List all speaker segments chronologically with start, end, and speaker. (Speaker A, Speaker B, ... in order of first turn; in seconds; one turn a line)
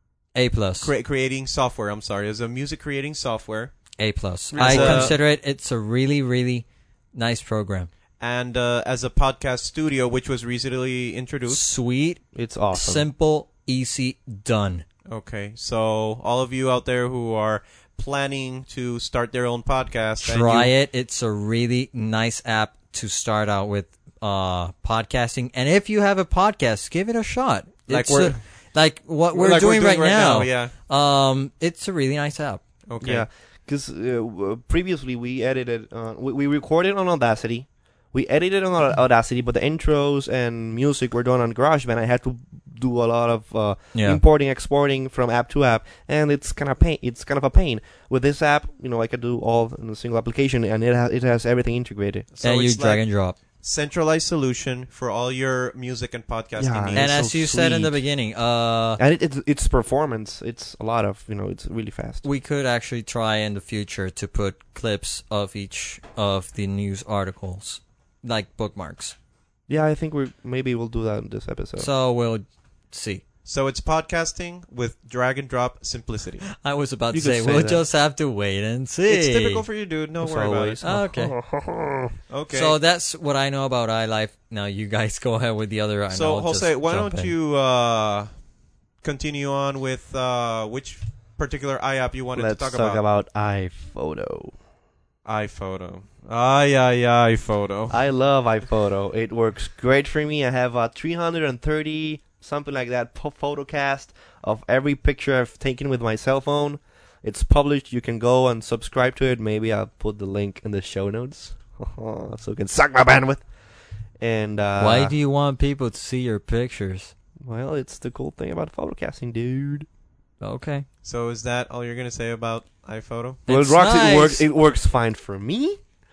Speaker A: 0.3-0.9
Speaker B: 0.8-3.7
Speaker A: 4.0-7.9
Speaker C: 4.5-5.2
Speaker B: 4.5-5.2
Speaker B: 8.2-11.7
Speaker A: 11.5-14.8
Speaker C: 12.3-13.1
Speaker B: 15.1-20.7
Speaker A: 20.2-32.6
Speaker B: 27.9-28.4
Speaker B: 29.3-30.7
Speaker B: 32.9-33.3
Speaker C: 33.0-52.3
Speaker A: 44.0-44.2
Speaker B: 52.3-53.0
Speaker A: 52.4-53.4
Speaker B: 53.6-57.2
Speaker C: 56.6-58.0
Speaker A: 57.0-59.0
Speaker C: 59.0-62.2
Speaker A: 62.2-69.2
Speaker C: 69.7-71.9
Speaker A: 71.8-73.2
Speaker B: 73.5-76.5
Speaker A: 76.6-79.7
Speaker C: 77.1-77.8
Speaker B: 79.1-80.8
Speaker C: 80.2-82.1
Speaker A: 80.8-81.4
Speaker B: 82.3-82.8
Speaker A: 82.5-87.3
Speaker B: 86.1-88.3
Speaker B: 89.0-93.0
Speaker C: 92.3-94.5
Speaker B: 95.2-98.0
Speaker C: 97.9-113.4
Speaker C: 114.2-115.2
Speaker A: 114.8-117.1
Speaker C: 117.4-119.9
Speaker A: 120.4-120.9
Speaker B: 121.0-123.4
Speaker A: 123.5-124.5
Speaker C: 123.5-125.8